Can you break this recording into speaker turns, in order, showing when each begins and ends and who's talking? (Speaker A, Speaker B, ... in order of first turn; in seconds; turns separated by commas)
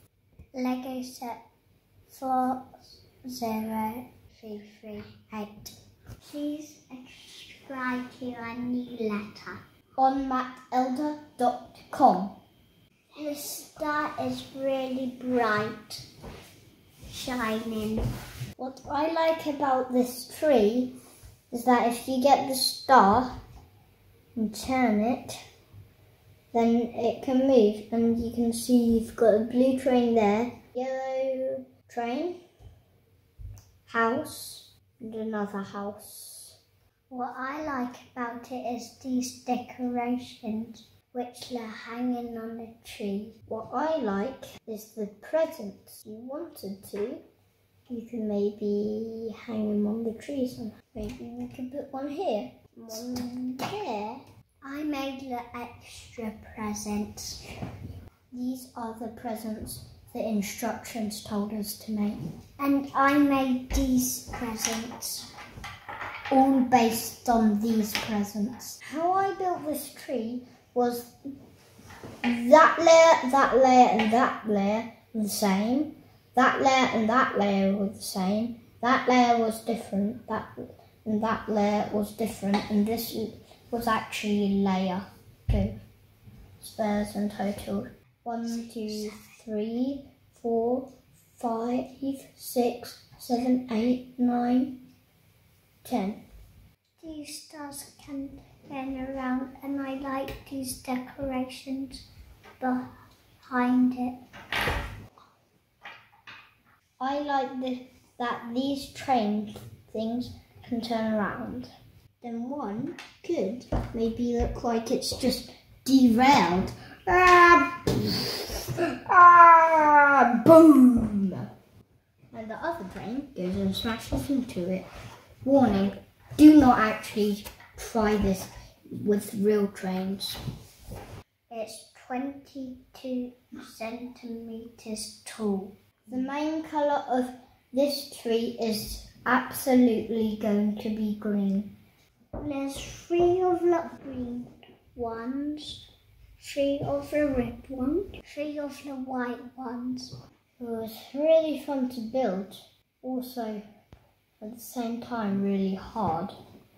Speaker A: 0.5-1.4, Speaker A: 2.1-9.6, Speaker B: 10.0-12.3, Speaker A: 13.1-16.0, Speaker A: 17.1-18.0, Speaker B: 18.6-20.9, Speaker B: 21.5-23.3, Speaker B: 24.4-25.4, Speaker B: 26.5-32.4, Speaker B: 33.9-36.6, Speaker A: 37.1-43.4, Speaker B: 43.4-47.2, Speaker B: 47.9-54.2, Speaker A: 52.9-53.9, Speaker A: 54.6-57.4, Speaker B: 58.3-62.2, Speaker A: 62.6-65.3, Speaker B: 66.3-71.1, Speaker B: 72.2-85.7, Speaker B: 86.6-94.7, Speaker A: 88.6-89.2, Speaker B: 95.8-96.2, Speaker A: 97.0-102.0, Speaker A: 102.6-102.8, Speaker A: 103.5-104.1, Speaker B: 107.0-111.7, Speaker B: 112.2-121.5, Speaker B: 122.3-124.8, Speaker B: 125.4-130.4, Speaker A: 131.5-135.7, Speaker B: 136.1-141.7, Speaker A: 142.4-145.8, Speaker A: 146.4-150.1, Speaker B: 150.6-153.6, Speaker B: 154.4-156.3